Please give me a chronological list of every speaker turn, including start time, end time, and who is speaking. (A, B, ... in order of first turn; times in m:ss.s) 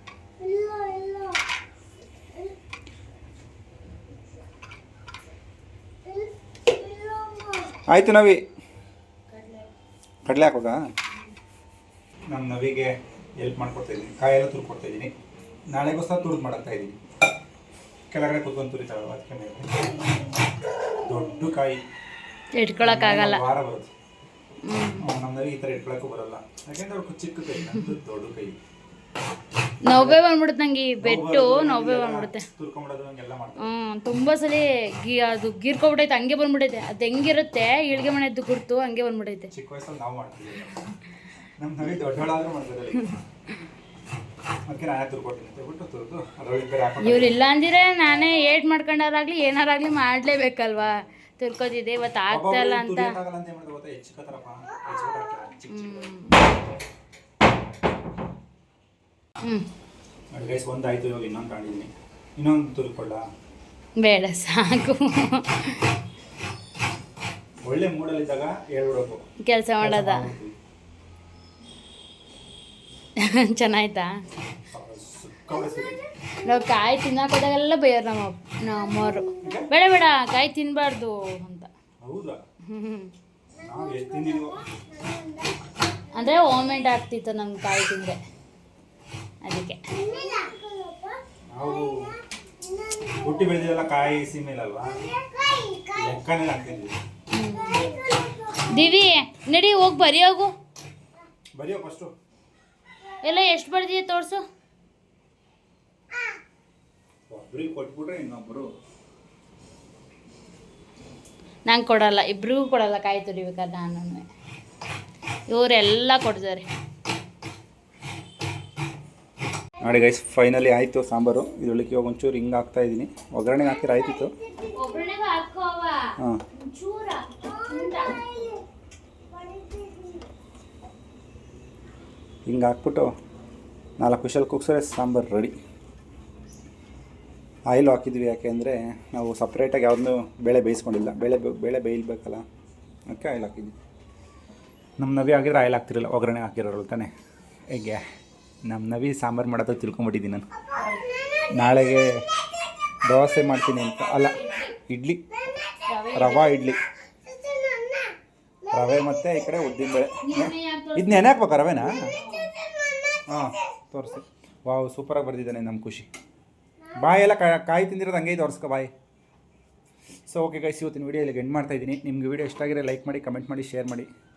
0:00.4-0:01.4 A
0:02.2-0:02.5 A
0:06.0-0:07.7 A
0:07.9-0:08.4 B
0:09.3-0:09.7 C
0:10.2-0:10.8 B
0:12.3-0:15.1 B
0:15.7-0:17.0 B
0:18.1-0:20.1 B
0:21.0-0:21.8 B
0:22.6-0:23.4 C
0:22.8-0:23.9 B
0:24.6-0:25.0 C
0:25.0-0:28.6 B
0:29.8-0:32.5 C
0:29.9-0:30.2 B
0:31.0-0:33.7 B
0:33.6-0:39.5 C
0:39.5-0:40.9 B
0:41.6-0:43.1 B
0:44.6-0:47.4 B
0:47.0-0:53.1 C
0:52.3-0:56.3 B
0:55.7-0:56.4 C
0:59.4-0:59.7 C
1:00.3-1:03.2 B
1:04.0-1:05.9 C
1:07.6-1:09.2 B
1:09.4-1:10.3 C
1:09.8-1:10.5 B
1:13.2-1:14.2 C
1:14.7-1:16.0 B
1:15.5-1:16.7 A
1:16.4-1:21.7 C
1:18.8-1:19.6 A
1:19.4-1:19.7 B
1:22.0-1:22.4 B
1:22.7-1:23.1 C
1:23.5-1:26.6 A
1:23.6-1:24.6 B
1:26.1-1:28.2 C
1:29.4-1:29.8 C
1:29.9-1:34.1 A
1:31.5-1:32.1 B
1:33.2-1:35.0 B
1:34.8-1:36.2 A
1:35.9-1:37.0 B
1:37.3-1:37.9 C
1:37.5-1:39.0 A
1:38.7-1:40.5 C
1:41.6-1:42.1 B
1:43.2-1:44.4 C
1:47.3-1:48.7 B
1:51.6-1:54.2 C
1:55.5-1:56.7 C
1:59.8-2:04.3 B
2:03.6-2:05.1 A
2:04.7-2:08.4 C
2:07.5-2:08.6 A
2:09.3-2:10.3 A
2:12.4-2:13.1 B
2:14.0-2:15.5 B
2:17.7-2:22.4 B
2:23.1-2:23.7 B
2:25.0-2:27.1 B
2:27.7-2:28.0 B
2:28.6-2:30.4 B
2:30.8-2:31.1 C
2:31.2-2:31.8 A
2:31.5-2:32.1 B
2:33.1-2:35.2 B
2:34.3-2:34.7 C
2:35.5-2:35.8 A
2:35.9-2:36.5 C
2:36.1-2:36.8 B
2:37.1-2:39.0 A
2:38.7-2:42.1 B
2:40.2-2:41.3 C
2:42.1-2:42.5 C
2:42.6-2:43.2 A
2:43.3-2:46.1 B
2:46.8-2:47.1 A
2:46.9-2:48.9 B
2:50.3-2:54.1 B